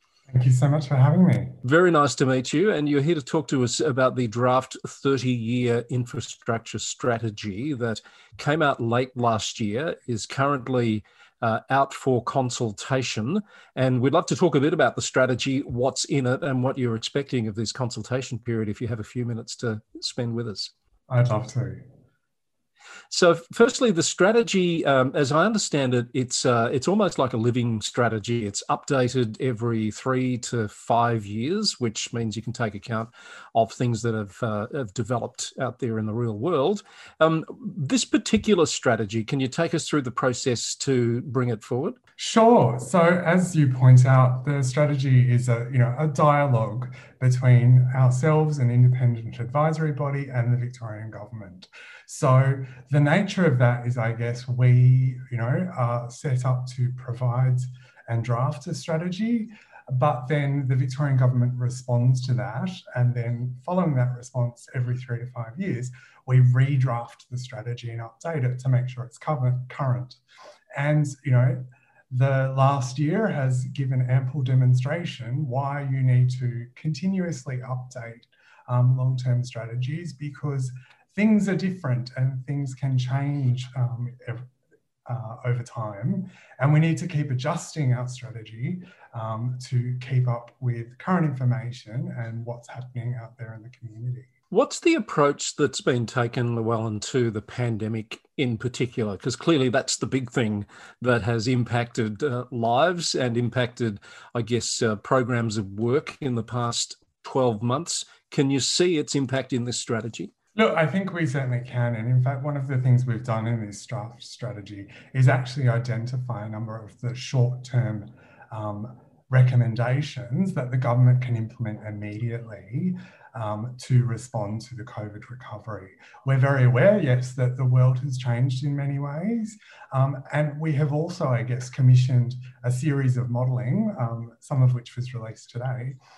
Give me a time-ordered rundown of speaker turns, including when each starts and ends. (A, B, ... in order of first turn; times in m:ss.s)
0:00.3-0:01.6 A
0:01.6-0:20.7 B
0:21.1-0:21.8 A
0:23.1-0:42.0 B
0:42.2-1:10.2 A
1:10.8-1:24.5 A
1:25.1-1:34.3 A
1:34.5-1:50.3 B
1:50.6-2:16.0 A